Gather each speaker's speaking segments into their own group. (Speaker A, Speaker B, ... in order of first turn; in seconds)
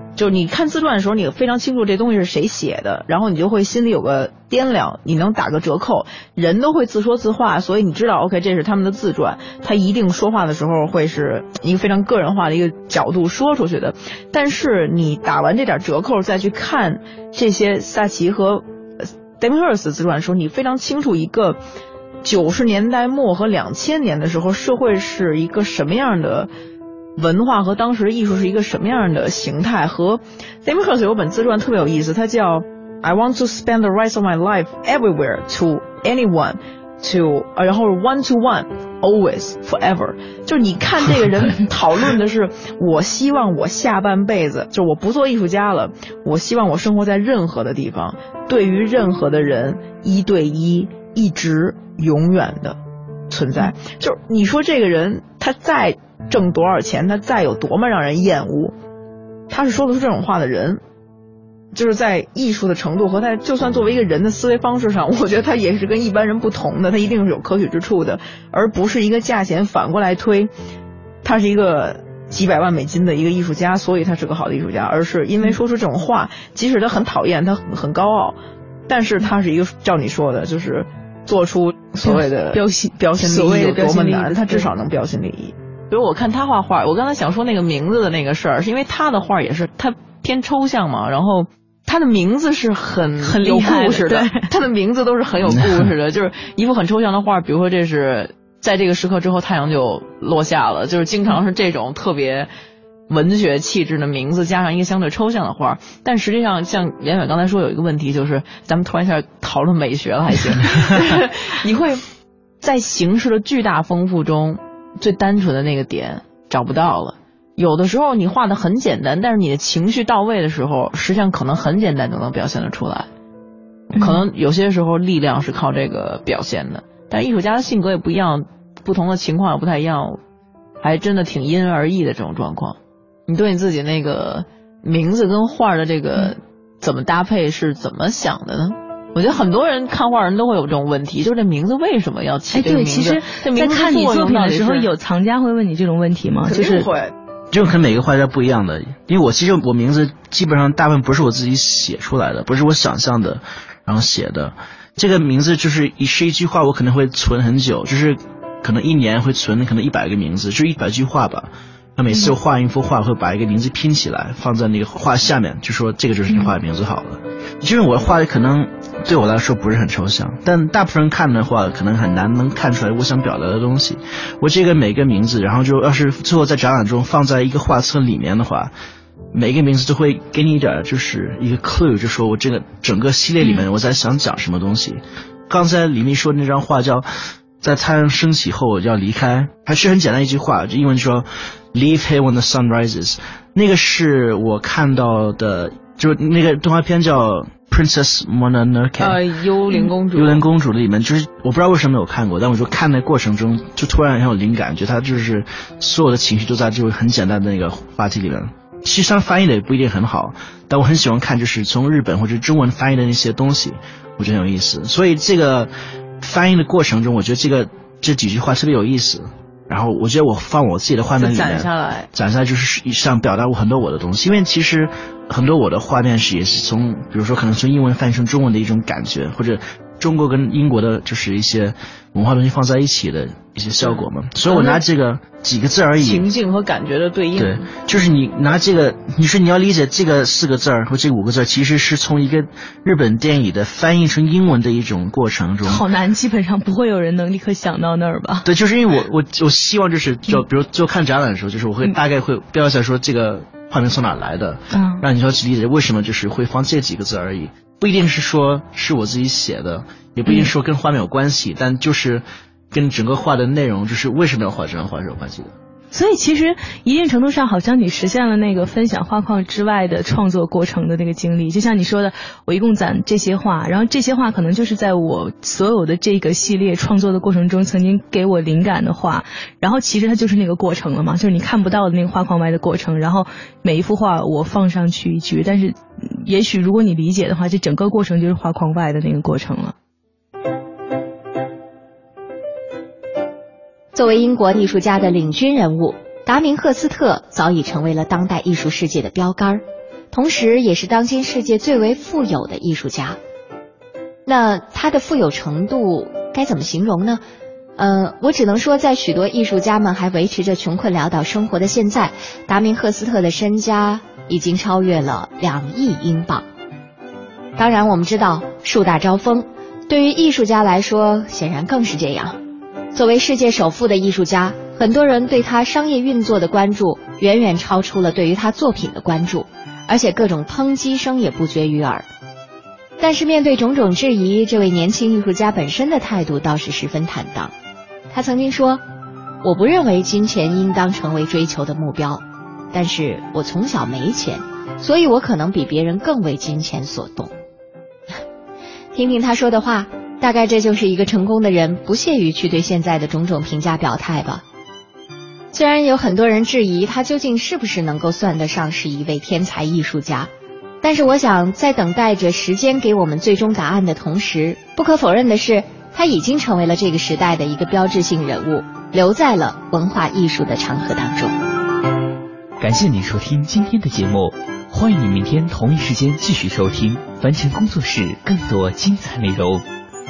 Speaker A: 0.1-18.6, 19.4-21.6, 22.2-26.5, 27.2-52.8, 53.3-58.7, 59.5-60.8, 61.7-70.5, 71.2-78.4, 78.9-102.5, 103.1-112.0, 112.6-123.1, 124.0-130.2, 130.8-132.8, 133.3-144.9, 146.4-147.1, 199.0-200.4, 221.2-222.1, 233.8-234.8, 236.0-237.7
Speaker B: 82.0-84.7, 93.2-94.5, 123.9-124.2, 142.5-146.9, 245.6-248.5, 254.7-255.0, 265.9-289.7
Speaker C: 95.5-95.8, 147.5-178.7, 179.3-187.1, 187.6-199.2, 200.1-236.3, 237.3-245.8, 248.4-265.5
Speaker D: 293.9-303.2, 304.2-307.2, 307.8-316.4, 317.6-322.4, 322.9-332.1, 333.0-337.5, 338.1-338.8, 339.4-347.3, 348.9-354.4, 355.5-360.3, 360.8-371.4
Speaker E: 372.6-379.6